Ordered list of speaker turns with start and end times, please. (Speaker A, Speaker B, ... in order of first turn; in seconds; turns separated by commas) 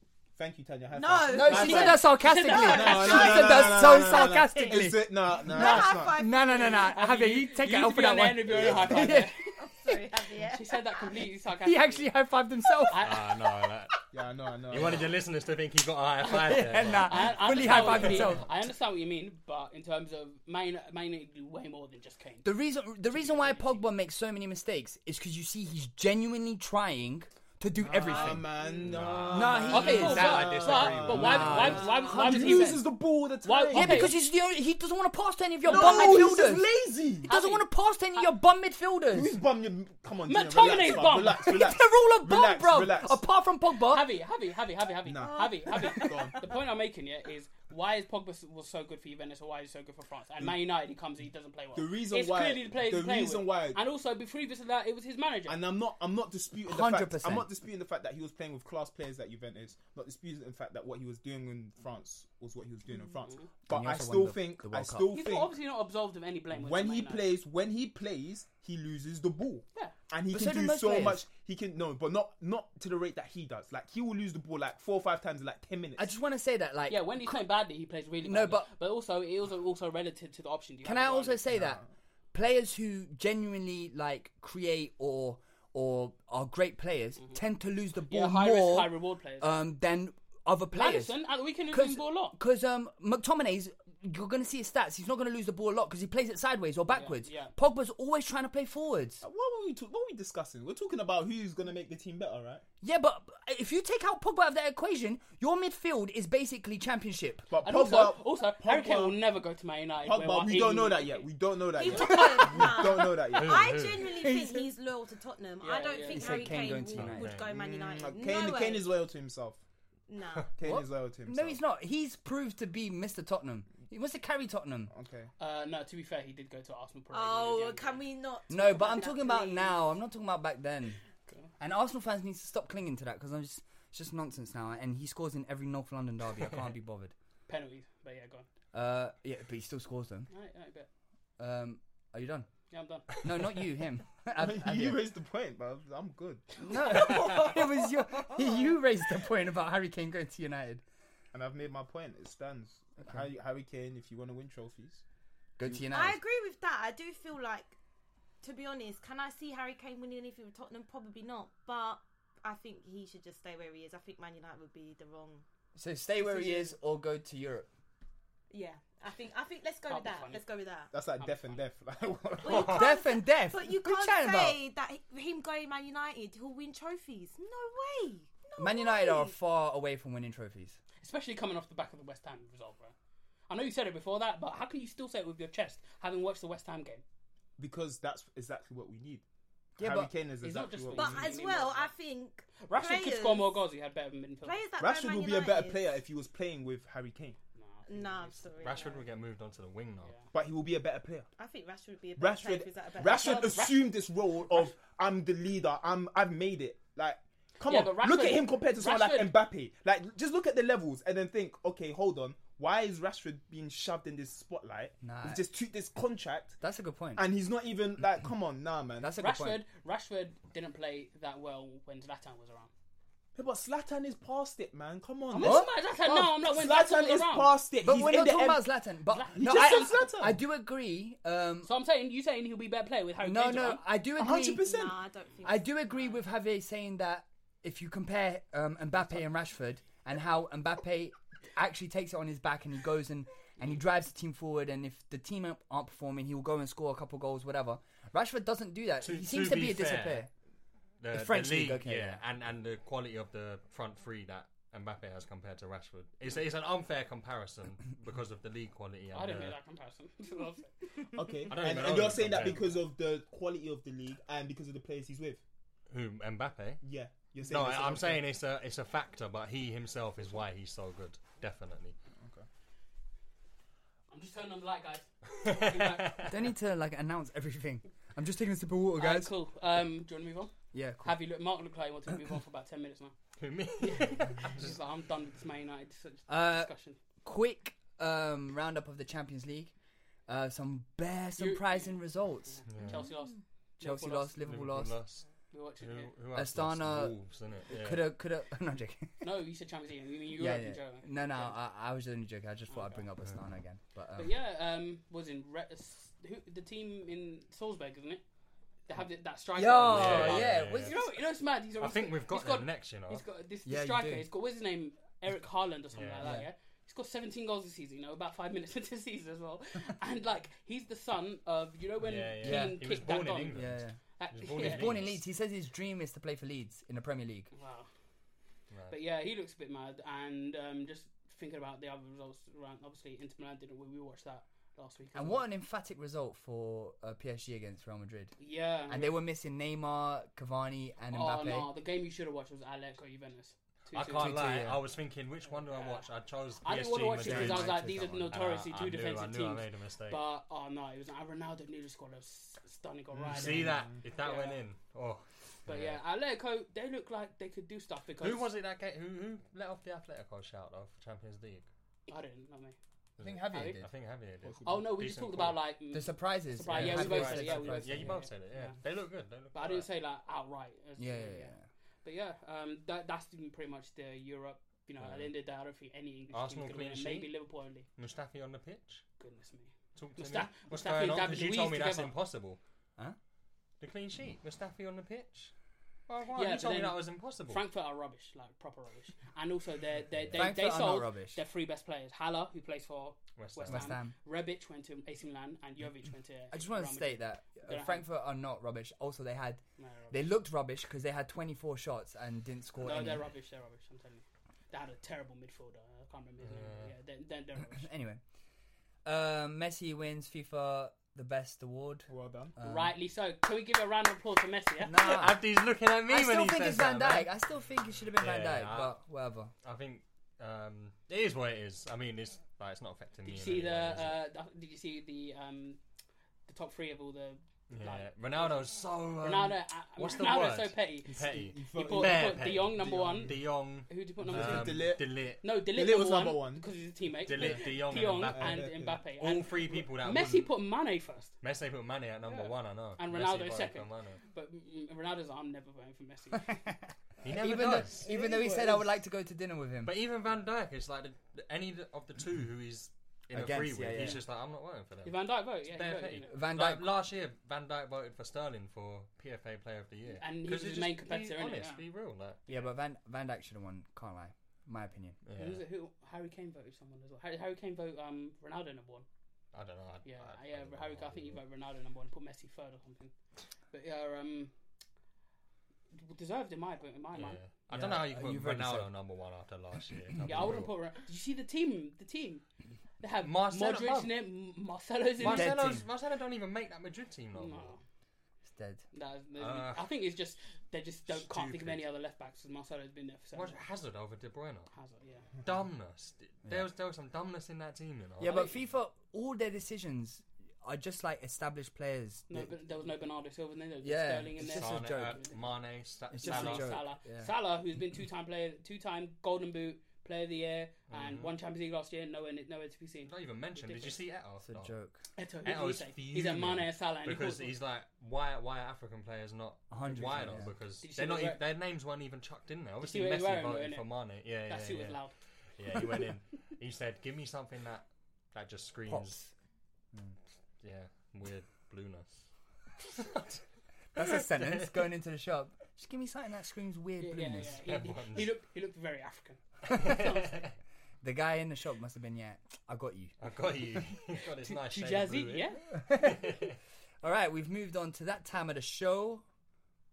Speaker A: 0.4-2.0, Speaker B: 0.9-4.8, Speaker C: 1.3-9.3, Speaker D: 1.5-3.6, Speaker A: 2.6-6.2, Speaker B: 5.3-7.0, Speaker D: 6.6-9.4, Speaker A: 8.5-9.2, Speaker B: 9.6-11.1, Speaker D: 10.4-12.1, Speaker C: 11.6-13.1, Speaker D: 12.9-13.3, Speaker E: 13.0-13.9, Speaker A: 14.1-15.1, Speaker E: 14.7-18.4, Speaker C: 16.3-18.5, Speaker D: 17.0-22.5, Speaker C: 22.4-28.4, Speaker D: 23.1-23.8, Speaker A: 27.8-34.1, Speaker B: 28.0-28.9, Speaker E: 28.8-31.7, Speaker C: 29.3-32.8, Speaker D: 29.7-32.9, Speaker B: 31.7-32.2, Speaker D: 33.4-34.1, Speaker C: 33.7-36.7, Speaker A: 35.6-37.3, Speaker B: 35.7-36.2, Speaker C: 37.2-39.4, Speaker D: 37.2-38.3, Speaker A: 39.1-43.2, Speaker D: 40.2-41.5, Speaker C: 41.3-44.1, Speaker D: 43.9-55.6, Speaker A: 45.0-46.4, Speaker B: 45.2-46.1, Speaker C: 45.7-46.2, Speaker A: 51.7-53.8, Speaker A: 55.5-65.5, Speaker C: 56.6-57.5, Speaker C: 63.7-65.1, Speaker D: 65.1-67.2, Speaker A: 66.5-76.1, Speaker C: 70.3-71.2, Speaker C: 76.0-77.5, Speaker D: 76.9-81.4, Speaker C: 78.2-78.7, Speaker C: 80.8-81.8, Speaker A: 81.5-81.8, Speaker C: 82.3-99.2, Speaker D: 88.1-89.7, Speaker D: 90.7-92.3, Speaker D: 96.9-97.5, Speaker A: 99.2-102.6, Speaker C: 102.8-107.5, Speaker A: 107.5-109.2, Speaker D: 107.6-111.3, Speaker A: 110.0-113.8, Speaker B: 111.7-119.0, Speaker E: 113.3-114.1, Speaker C: 114.2-114.7, Speaker D: 115.6-116.6, Speaker C: 116.1-117.3, Speaker E: 116.9-117.5, Speaker A: 117.5-119.6, Speaker B: 120.1-120.5, Speaker A: 120.5-121.6, Speaker C: 120.6-124.9, Speaker A: 124.9-125.3, Speaker D: 125.4-128.0, Speaker B: 127.1-129.8, Speaker C: 128.5-131.0, Speaker C: 131.6-137.1, Speaker D: 137.5-138.5, Speaker C: 138.7-140.3, Speaker D: 140.3-140.9, Speaker C: 141.4-142.5, Speaker D: 142.7-143.1, Speaker C: 143.1-145.0, Speaker A: 144.4-146.5, Speaker C: 146.7-150.8, Speaker A: 151.3-155.0, Speaker C: 155.6-156.2, Speaker B: 155.9-157.8, Speaker B: 158.4-165.4, Speaker C: 165.8-167.7, Speaker B: 166.2-166.7, Speaker B: 168.5-170.9, Speaker D: 169.9-170.4, Speaker A: 170.9-172.9, Speaker D: 171.2-171.6, Speaker B: 172.4-179.3, Speaker E: 172.4-172.9, Speaker C: 172.7-174.6, Speaker C: 178.6-180.8, Speaker D: 181.0-182.9, Speaker D: 183.5-187.0, Speaker A: 187.6-189.2, Speaker C: 189.8-190.1, Speaker A: 189.8-191.3, Speaker D: 190.4-191.9, Speaker B: 190.9-193.6, Speaker D: 192.6-194.6, Speaker B: 194.4-196.0, Speaker A: 194.8-197.4, Speaker D: 197.6-198.7, Speaker B: 197.8-199.1, Speaker E: 198.6-200.1, Speaker D: 200.0-200.3, Speaker A: 200.3-201.3, Speaker B: 201.4-203.7, Speaker A: 202.2-216.6, Speaker D: 203.1-203.9, Speaker D: 207.7-209.4, Speaker C: 215.0-215.4, Speaker C: 216.6-217.2, Speaker A: 217.1-219.1, Speaker C: 219.0-219.6, Speaker D: 219.2-222.7, Speaker A: 223.3-225.7, Speaker D: 225.3-227.5, Speaker C: 225.4-226.3, Speaker A: 226.4-228.7, Speaker C: 227.8-231.7, Speaker D: 229.1-230.0, Speaker A: 229.3-230.4, Speaker D: 231.6-233.8, Speaker C: 233.2-234.6, Speaker A: 234.2-235.0, Speaker B: 234.6-236.1, Speaker C: 235.4-250.3, Speaker E: 249.0-250.3, Speaker E: 251.0-259.6, Speaker C: 251.1-252.2, Speaker D: 259.1-261.1, Speaker A: 261.1-265.4, Speaker E: 261.5-262.7, Speaker E: 265.9-266.8, Speaker A: 266.8-268.2, Speaker E: 267.4-271.9, Speaker A: 272.2-272.4, Speaker D: 274.1-276.3, Speaker E: 275.4-276.3, Speaker C: 276.3-279.3, Speaker D: 279.0-280.5, Speaker C: 280.7-281.2, Speaker D: 281.0-283.1, Speaker E: 283.4-284.7, Speaker D: 283.8-287.0, Speaker C: 286.3-286.7, Speaker C: 287.2-289.7, Speaker C: 290.3-292.6, Speaker D: 291.4-294.4, Speaker E: 292.7-293.0, Speaker B: 292.9-293.4, Speaker C: 293.8-295.0, Speaker E: 294.4-295.3, Speaker D: 295.5-296.1, Speaker E: 295.8-298.1, Speaker C: 296.3-299.2, Speaker D: 299.2-301.6, Speaker C: 300.3-304.3, Speaker D: 302.7-303.0, Speaker D: 304.1-308.2, Speaker D: 308.9-325.0, Speaker C: 309.5-311.0, Speaker E: 309.9-311.1, Speaker E: 311.8-313.2, Speaker C: 313.6-314.3, Speaker E: 315.9-316.3, Speaker C: 316.2-316.5, Speaker E: 322.0-325.2, Speaker C: 322.4-322.8, Speaker C: 323.5-324.0, Speaker C: 324.5-327.5, Speaker D: 327.5-327.9, Speaker E: 328.7-329.0, Speaker D: 328.9-335.4, Speaker C: 335.1-338.4, Speaker D: 338.4-339.2, Speaker C: 338.9-341.7, Speaker D: 341.1-344.4, Speaker E: 343.9-350.2, Speaker C: 344.1-344.8, Speaker D: 345.6-346.0, Speaker D: 346.6-354.6, Speaker C: 347.2-348.3, Speaker A: 353.2-354.0, Speaker E: 353.3-356.0, Speaker D: 355.6-358.5, Speaker E: 358.2-361.7, Speaker D: 362.1-362.8, Speaker E: 363.2-365.6, Speaker C: 363.2-363.9, Speaker D: 363.5-363.8, Speaker A: 364.4-364.9, Speaker D: 364.6-368.8, Speaker C: 365.9-368.2, Speaker E: 366.7-369.9, Speaker D: 369.5-377.9, Speaker C: 371.0-371.6, Speaker E: 375.0-375.3, Speaker E: 376.3-377.3, Speaker E: 377.9-379.0, Speaker D: 379.2-382.1, Speaker E: 379.9-382.6, Speaker E: 383.8-385.5, Speaker E: 386.1-387.6, Speaker D: 386.3-398.0, Speaker C: 390.3-391.4, Speaker E: 393.4-393.9, Speaker C: 393.7-394.1, Speaker C: 396.5-403.2, Speaker D: 399.8-400.2, Speaker D: 402.8-407.9, Speaker E: 406.4-406.9, Speaker C: 407.7-408.2, Speaker C: 409.0-412.9, Speaker A: 412.1-412.5, Speaker D: 412.6-415.1, Speaker C: 414.8-415.4, Speaker E: 414.9-417.3, Speaker C: 416.1-419.5, Speaker E: 418.1-418.9, Speaker E: 419.6-424.2, Speaker D: 423.2-425.8, Speaker D: 426.5-428.6, Speaker E: 427.7-435.4, Speaker D: 429.2-433.3, Speaker A: 431.0-433.4, Speaker D: 433.9-441.3, Speaker A: 434.2-436.7, Speaker E: 437.2-440.5, Speaker A: 438.3-439.0, Speaker E: 441.4-444.2, Speaker D: 442.2-446.6, Speaker C: 446.5-449.9, Speaker E: 447.2-448.1, Speaker A: 448.0-448.9, Speaker E: 449.8-462.4, Speaker C: 453.3-454.2, Speaker D: 455.0-456.3, Speaker C: 456.3-456.9, Speaker D: 460.2-461.8, Speaker C: 462.5-465.2, Speaker E: 465.2-465.6, Speaker D: 465.4-469.1, Speaker E: 469.5-471.4, Speaker D: 470.0-473.1, Speaker D: 473.7-474.5, Speaker D: 475.9-477.4, Speaker E: 477.1-480.7, Speaker C: 477.7-478.9, Speaker D: 480.2-482.4, Speaker D: 483.0-485.6, Speaker E: 483.2-484.1, Speaker E: 485.2-487.8, Speaker C: 485.2-485.9, Speaker D: 487.3-487.8, Speaker C: 488.4-488.8, Speaker D: 488.9-493.6, Speaker E: 489.4-489.9, Speaker E: 491.1-491.9, Speaker E: 493.3-494.7, Speaker D: 494.7-495.2, Speaker E: 495.4-498.4, Speaker C: 498.2-502.5, Speaker D: 498.2-498.5, Speaker D: 502.3-505.4, Speaker C: 503.8-505.2, Speaker E: 504.4-506.8, Speaker C: 506.1-507.3, Speaker D: 506.2-514.0, Speaker E: 510.9-511.3, Speaker E: 513.0-514.7, Speaker C: 514.4-515.0, Speaker D: 515.1-517.5, Speaker E: 515.4-525.0, Speaker C: 519.7-520.5, Speaker D: 520.8-521.4, Speaker D: 522.8-523.9, Speaker D: 524.5-525.1, Speaker E: 525.6-529.2, Speaker C: 528.9-529.3, Speaker E: 530.6-532.3, Speaker E: 533.0-533.4, Speaker C: 533.9-537.6, Speaker E: 534.3-534.7, Speaker D: 537.0-540.4, Speaker E: 537.6-538.3, Speaker E: 539.7-540.5, Speaker C: 539.7-540.0, Speaker C: 541.0-543.1, Speaker E: 543.2-546.6, Speaker D: 544.4-545.6, Speaker C: 545.7-546.4, Speaker C: 547.0-549.2